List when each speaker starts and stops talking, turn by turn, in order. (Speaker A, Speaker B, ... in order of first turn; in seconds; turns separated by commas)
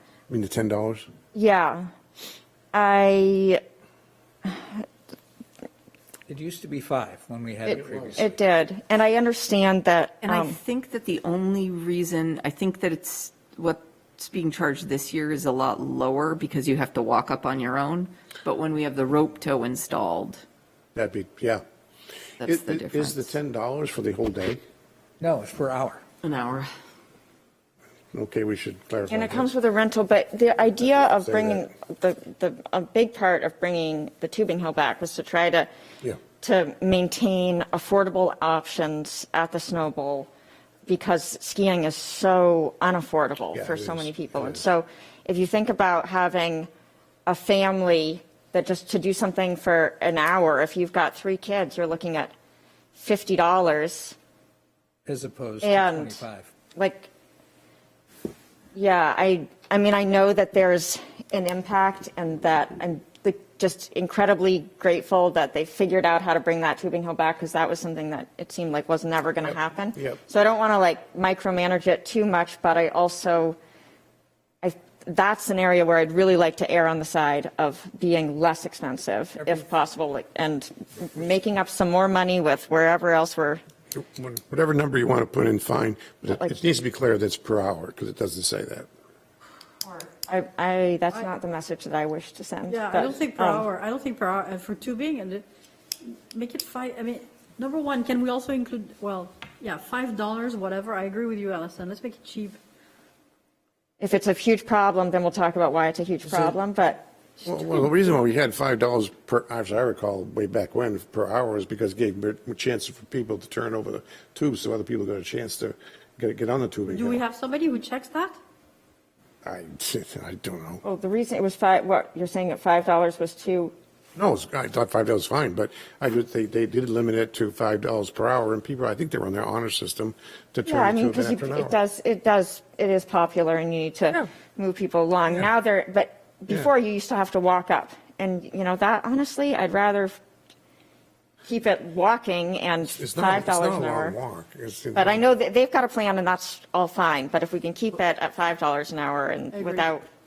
Speaker A: 0.3-1.1, Speaker B: 1.3-1.9, Speaker B: 2.7-3.6, Speaker B: 4.4-4.8, Speaker C: 6.3-8.3, Speaker A: 7.7-8.3, Speaker B: 8.2-10.6, Speaker D: 10.2-20.4, Speaker A: 20.9-21.6, Speaker D: 22.4-23.3, Speaker A: 22.4-24.6, Speaker C: 25.2-26.0, Speaker D: 26.2-26.7, Speaker A: 28.1-29.5, Speaker B: 29.1-35.7, Speaker A: 31.1-31.6, Speaker B: 36.4-40.3, Speaker B: 40.9-46.7, Speaker A: 43.5-44.6, Speaker B: 47.2-52.3, Speaker B: 52.9-54.1, Speaker C: 55.0-56.5, Speaker B: 55.6-56.2, Speaker B: 56.7-57.1, Speaker B: 58.7-73.6, Speaker B: 74.6-83.6, Speaker A: 83.9-88.9, Speaker B: 89.9-93.7, Speaker E: 92.7-95.4, Speaker E: 96.0-102.6, Speaker B: 104.0-107.0, Speaker A: 107.4-117.2, Speaker E: 116.9-118.4, Speaker A: 119.4-120.8, Speaker B: 120.8-123.7, Speaker A: 124.2-131.7, Speaker B: 130.7-140.1, Speaker B: 141.4-144.2, Speaker A: 142.9-145.2, Speaker B: 144.9-150.0, Speaker E: 149.5-149.9